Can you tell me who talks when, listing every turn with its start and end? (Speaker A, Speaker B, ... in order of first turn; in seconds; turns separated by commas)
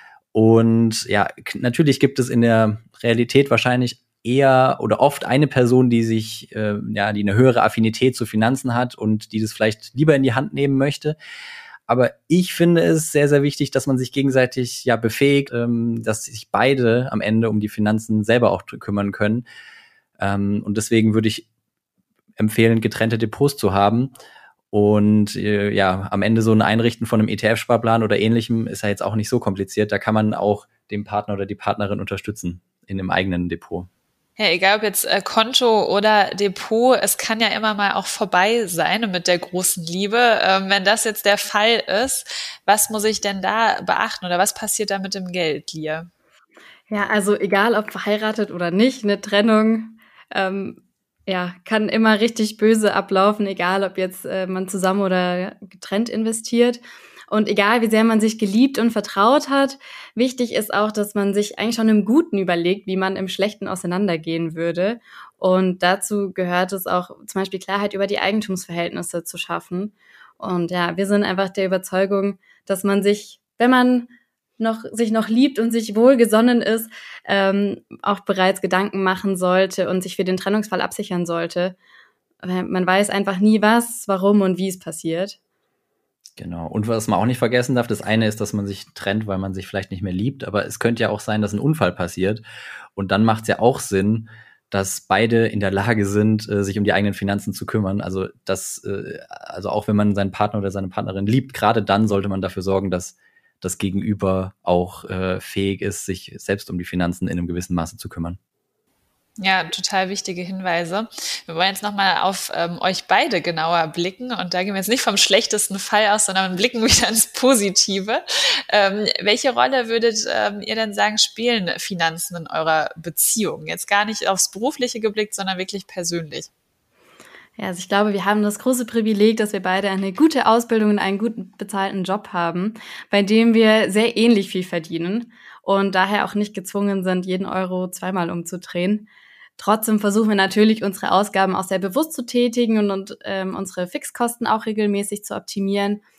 Speaker A: 0.3-11.2, Speaker A: 11.9-19.4, Speaker A: 20.2-21.5, Speaker A: 22.4-24.1, Speaker A: 24.7-33.9, Speaker B: 34.4-46.1, Speaker C: 46.9-56.8, Speaker C: 57.3-81.8, Speaker C: 82.4-85.4, Speaker A: 86.4-92.4, Speaker A: 93.0-108.4, Speaker B: 109.4-126.5, Speaker C: 127.6-146.0